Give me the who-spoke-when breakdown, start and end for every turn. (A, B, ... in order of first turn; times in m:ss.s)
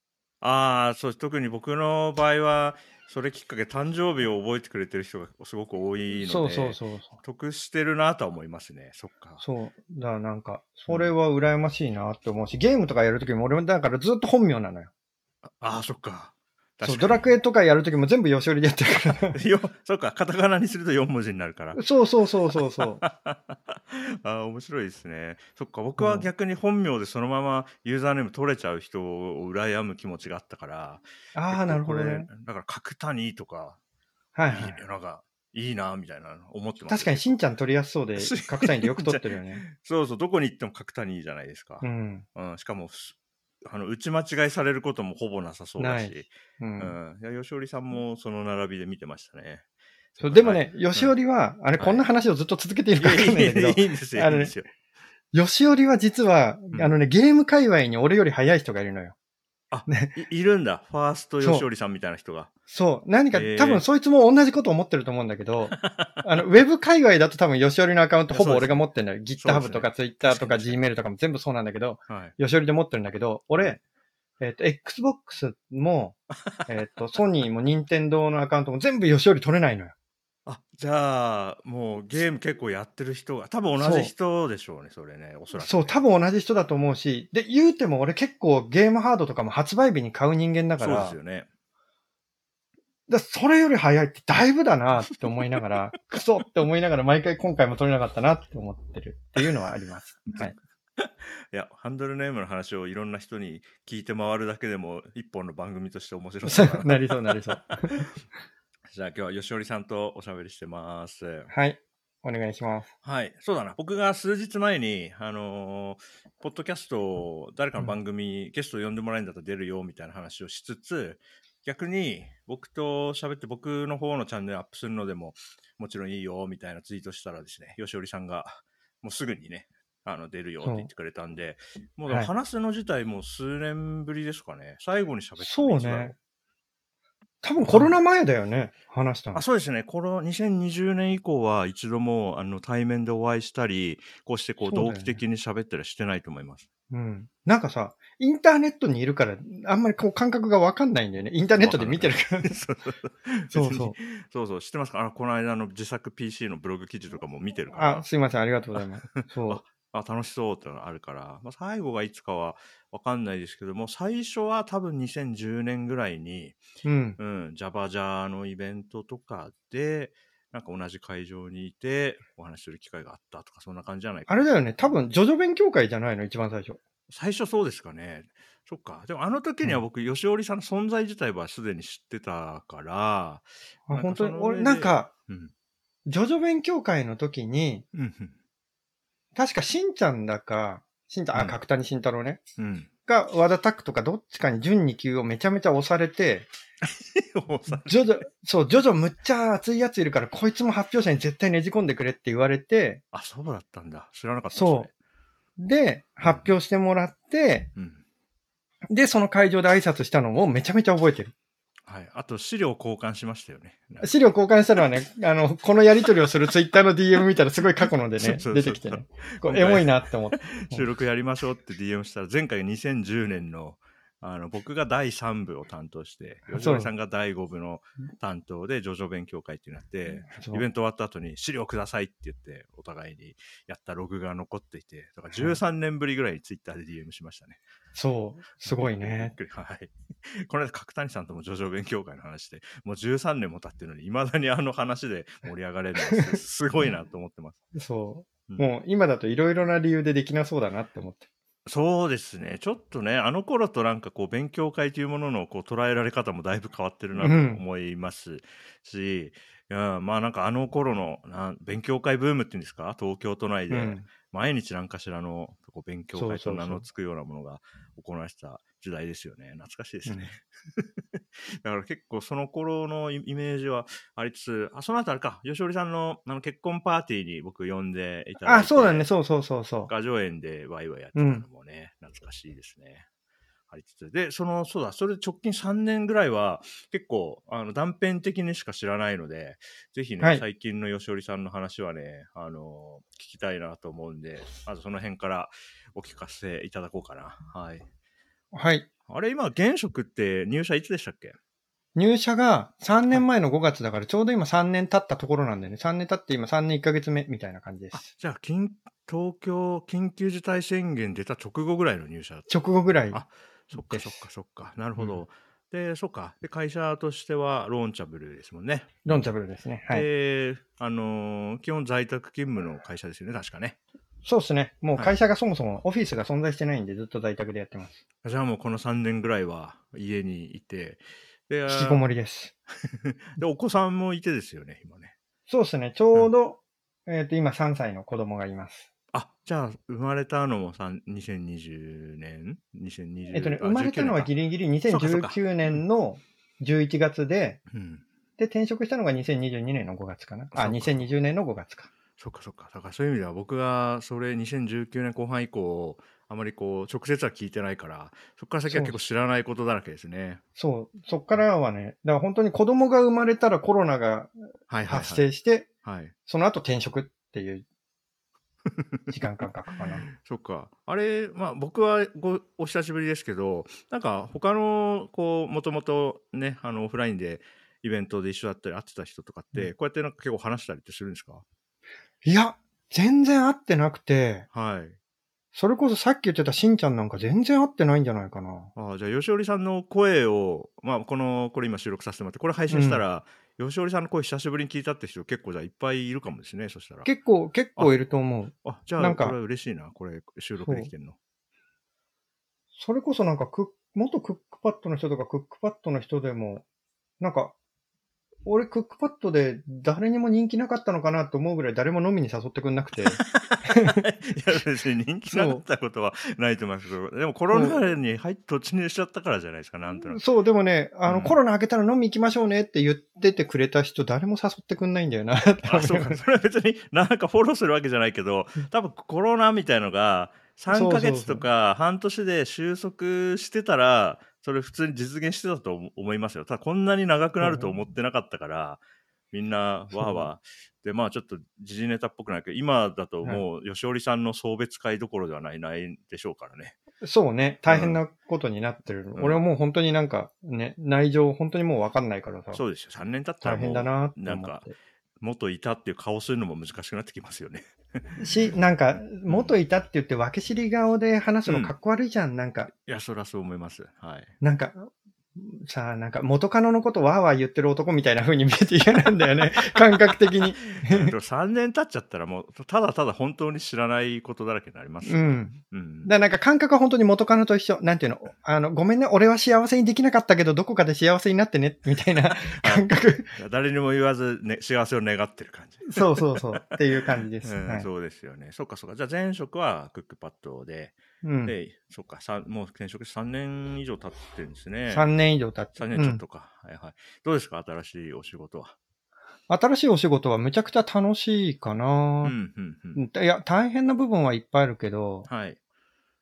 0:00.4-0:09.4 A
0:06.1-0:07.2 B
0:09.4-0:14.9 B
0:15.4-0:17.3 A
0:16.8-0:19.4 B
0:19.3-0:21.8 A
0:21.8-0:23.0 B
0:22.5-0:33.8 A
0:26.0-0:26.3 B
0:31.4-0:32.3 B
0:34.4-0:34.8 B
0:34.5-0:37.4 A
0:36.9-0:39.6 B
0:38.2-0:49.6 A
0:41.8-0:42.2 B
0:45.8-0:47.0 B
0:50.2-0:51.1 A
0:50.2-0:54.5 B
0:51.8-0:52.1 A
0:53.0-0:54.7 A
0:55.3-0:59.2 B
0:59.7-1:02.5 A
0:59.9-1:00.1 B
1:01.4-1:01.7 B
1:02.7-1:13.8 B
1:03.3-1:03.8 A
1:05.7-1:06.2 A
1:08.3-1:08.8 A
1:09.4-1:10.8 A
1:12.1-1:12.3 A
1:14.4-1:20.0 B
1:20.5-1:26.0 A
1:23.8-1:24.1 B
1:25.6-1:31.2 B
1:30.8-1:31.5 A
1:33.1-1:40.6 B
1:40.3-1:48.1 A
1:46.4-1:48.1 B
1:48.9-1:51.5 A
1:51.5-1:52.9 B
1:53.0-2:16.2 A
2:10.6-2:10.9 B
2:15.4-2:16.1 B
2:17.4-2:19.4 B
2:17.6-2:18.0 A
2:19.3-2:26.7 A
2:24.6-2:25.2 B
2:26.9-2:32.5 B
2:31.6-2:38.1 A
2:33.5-2:34.0 B
2:37.7-2:39.6 B
2:38.8-2:46.6 A
2:46.8-2:47.2 B
2:47.2-2:55.0 A
2:54.3-2:56.8 B
2:57.1-3:05.5 A
3:03.9-3:05.1 B
3:06.1-3:07.8 B
3:07.9-3:08.4 A
3:09.4-3:12.4 B
3:12.6-3:12.9 A
3:13.1-3:16.5 B
3:16.8-3:18.3 A
3:17.7-3:23.0 B
3:23.1-3:24.9 A
3:24.5-3:24.9 B
3:25.6-3:27.7 B
3:26.2-3:26.5 A
3:27.8-3:28.0 A
3:28.9-3:31.3 B
3:31.9-3:34.2 A
3:34.0-3:40.8 B
3:38.2-3:57.6 A
3:46.5-3:46.9 B
3:50.2-3:50.6 B
3:58.0-3:59.4 B
3:58.6-4:07.6 A
4:06.1-4:06.9 B
4:07.7-4:11.3 B
4:11.7-4:39.1 A
4:17.2-4:17.6 B
4:23.7-4:24.1 B
4:26.2-4:26.8 B
4:30.1-4:30.3 B
4:38.4-4:39.9 B
4:39.9-4:43.1 A
4:41.2-4:41.4 B
4:43.7-4:57.9 A
4:58.5-4:58.9 B
4:59.1-5:01.4 A
5:02.0-5:08.1 B
5:07.9-5:12.5 A
5:12.5-5:13.2 B
5:13.1-5:19.2 A
5:13.7-5:14.2 B
5:19.0-5:20.1 B
5:19.9-5:23.8 A
5:24.2-5:28.0 B
5:28.2-5:32.0 A
5:31.7-5:32.5 B
5:32.8-5:35.1 A
5:35.5-5:38.9 B
5:39.1-5:44.3 A
5:43.3-5:47.6 B
5:44.9-5:45.8 A
5:47.7-5:48.0 A
5:48.4-5:51.9 B
5:50.5-5:51.1 A
5:52.2-6:00.4 A
5:58.7-5:59.0 B
6:00.6-6:04.4 B
6:04.7-6:05.3 A
6:04.9-6:05.7 B
6:05.8-6:06.1 A
6:06.3-6:07.6 B
6:08.7-6:09.2 A
6:09.1-6:10.1 B
6:09.7-6:21.4 A
6:22.2-6:24.5 B
6:24.5-6:25.0 A
6:25.5-6:28.7 B
6:28.8-6:37.1 A
6:32.7-6:33.0 B
6:37.0-6:39.4 B
6:38.6-6:41.2 A
6:40.6-6:40.9 B
6:42.8-6:46.6 B
6:47.2-6:47.6 B
6:48.5-6:54.0 B
6:53.0-7:00.2 A
6:55.3-6:55.6 B
6:57.5-6:57.8 B
7:00.0-7:06.2 B
7:01.1-7:01.4 A
7:05.6-7:18.8 A
7:10.7-7:11.4 B
7:17.4-7:17.7 B
7:19.3-7:26.8 A
7:19.9-7:20.3 B
7:27.0-7:32.6 B
7:27.7-7:28.0 A
7:29.2-7:29.4 A
7:32.5-7:38.2 A
7:33.4-7:34.7 B
7:38.2-7:42.7 B
7:39.3-7:39.6 A
7:41.5-7:41.7 A
7:42.7-7:44.3 A
7:44.4-7:51.2 B
7:49.6-7:56.1 A
7:55.0-8:03.3 B
8:02.4-8:06.8 A
8:05.9-8:07.9 B
8:07.4-8:15.1 A
8:11.2-8:11.5 B
8:14.9-8:16.2 B
8:15.8-8:18.8 A
8:19.5-8:22.4 B
8:22.2-8:23.0 A
8:23.0-8:25.3 B
8:25.3-8:25.6 A